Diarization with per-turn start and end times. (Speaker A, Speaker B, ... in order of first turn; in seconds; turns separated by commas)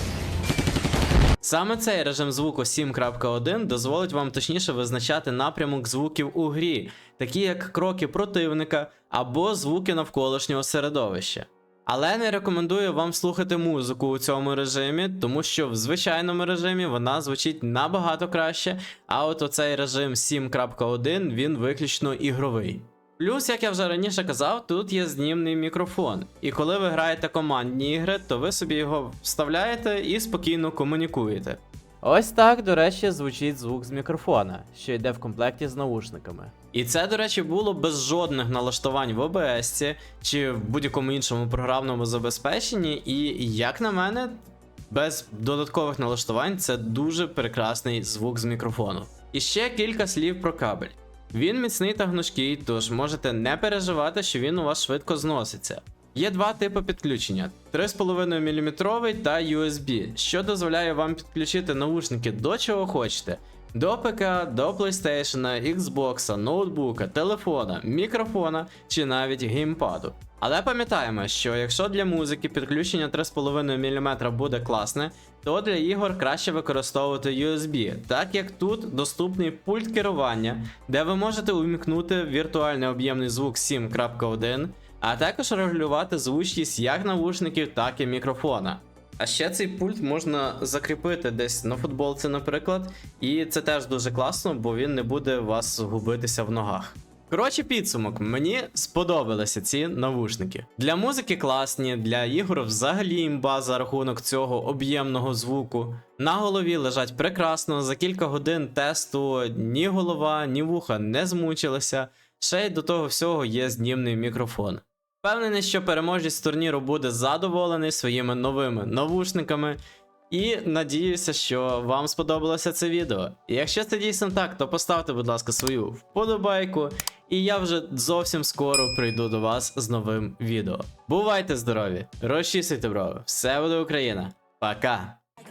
Speaker A: 1.4-119.8, Speaker A: 120.3-135.2